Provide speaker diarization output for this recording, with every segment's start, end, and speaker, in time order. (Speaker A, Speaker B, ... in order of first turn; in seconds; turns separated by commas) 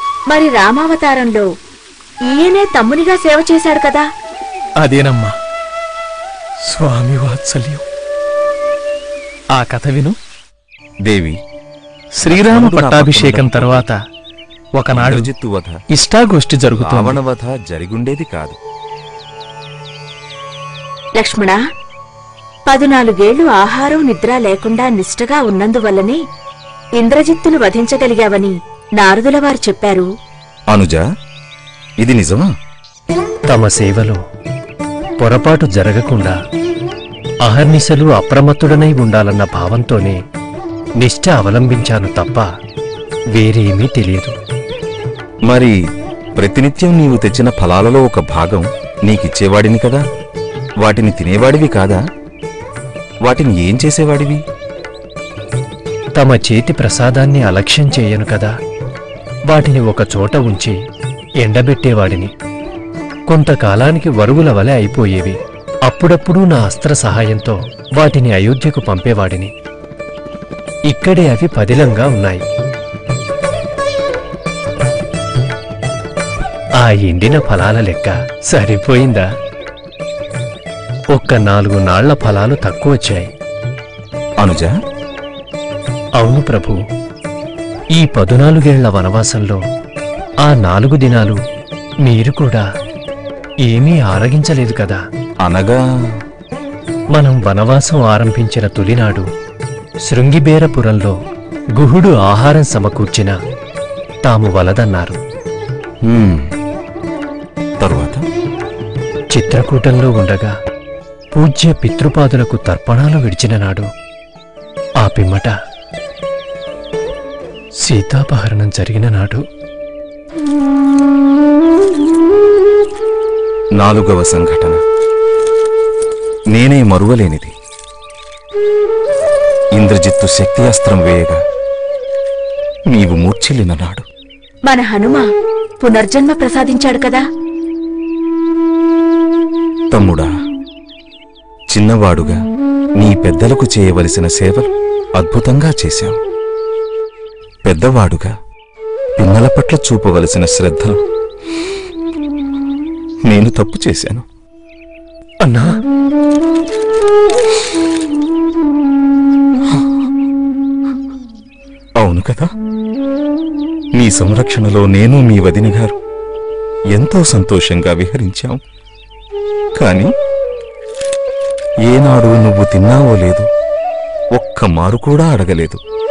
Speaker A: 0.3-1.5, Speaker A: 2.3-4.0, Speaker B: 4.8-5.3, Speaker B: 6.6-7.8, Speaker B: 9.6-10.2, Speaker C: 11.1-11.4, Speaker B: 12.2-14.0, Speaker C: 12.2-13.8, Speaker B: 14.8-15.3, Speaker C: 14.9-15.8, Speaker B: 15.9-17.2, Speaker C: 16.7-18.6, Speaker A: 21.1-21.6, Speaker A: 22.7-26.2, Speaker A: 27.0-30.1, Speaker C: 30.7-31.0, Speaker C: 32.0-32.5, Speaker D: 33.5-34.2, Speaker D: 35.2-36.4, Speaker D: 37.5-40.2, Speaker D: 41.0-42.5, Speaker D: 43.3-44.3, Speaker C: 45.5-45.7, Speaker C: 46.4-50.0, Speaker C: 50.8-52.0, Speaker C: 53.2-54.4, Speaker D: 56.1-58.5, Speaker D: 59.5-60.8, Speaker D: 61.4-62.3, Speaker D: 63.3-69.5, Speaker D: 70.9-72.4, Speaker D: 76.8-79.3, Speaker D: 81.1-83.3, Speaker C: 84.4-84.7, Speaker D: 86.2-86.8, Speaker D: 88.0-89.6, Speaker D: 90.4-91.4, Speaker D: 92.0-92.7, Speaker D: 93.6-95.0, Speaker C: 95.4-95.8, Speaker D: 97.1-99.3, Speaker D: 100.1-101.2, Speaker D: 101.8-103.3, Speaker D: 104.2-105.2, Speaker C: 106.1-106.5, Speaker C: 107.8-108.2, Speaker D: 109.3-110.5, Speaker D: 111.3-113.9, Speaker D: 115.0-115.5, Speaker D: 117.8-119.4, Speaker C: 123.8-124.8, Speaker C: 126.5-127.5, Speaker C: 129.7-131.4, Speaker C: 132.9-134.0, Speaker A: 134.7-135.2, Speaker A: 135.8-137.2, Speaker C: 139.9-140.3, Speaker C: 141.7-142.4, Speaker C: 143.0-146.2, Speaker C: 147.7-148.3, Speaker C: 149.2-151.0, Speaker C: 153.2-154.2, Speaker D: 155.4-155.7, Speaker C: 162.0-162.5, Speaker C: 163.9-165.9, Speaker C: 166.9-168.6, Speaker C: 169.8-170.1, Speaker C: 171.9-173.5, Speaker C: 174.4-175.8